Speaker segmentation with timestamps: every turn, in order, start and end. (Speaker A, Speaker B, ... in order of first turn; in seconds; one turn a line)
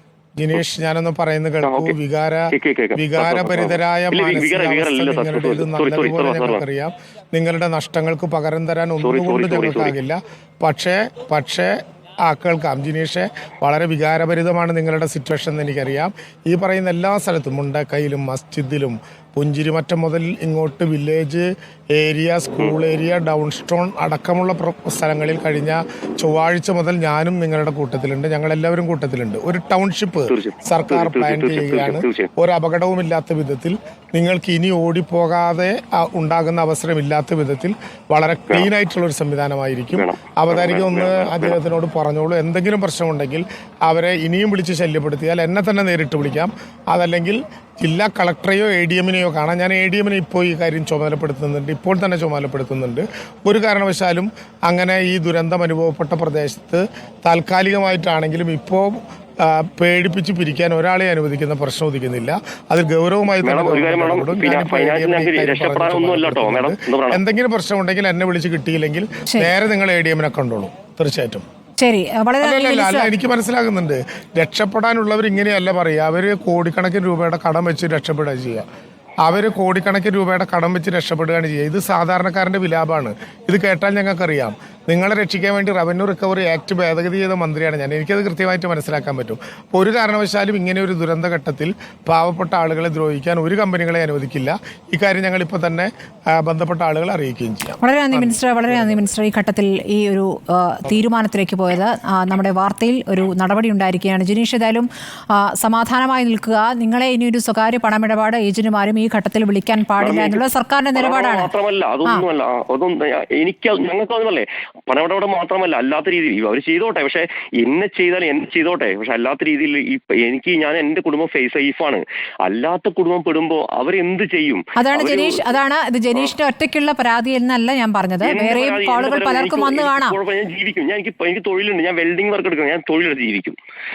Speaker A: 0.4-71.4
Speaker B: 1.6-1.9
Speaker B: 2.5-6.6
Speaker B: 9.0-9.9
Speaker B: 30.3-32.3
Speaker B: 39.9-41.6
Speaker B: 63.4-67.2
Speaker C: 71.8-73.1
Speaker A: 72.4-78.6
Speaker A: 79.2-99.1
Speaker C: 97.8-111.5
Speaker B: 110.0-110.4
Speaker B: 110.9-125.6
Speaker C: 124.8-130.2
Speaker B: 128.2-133.6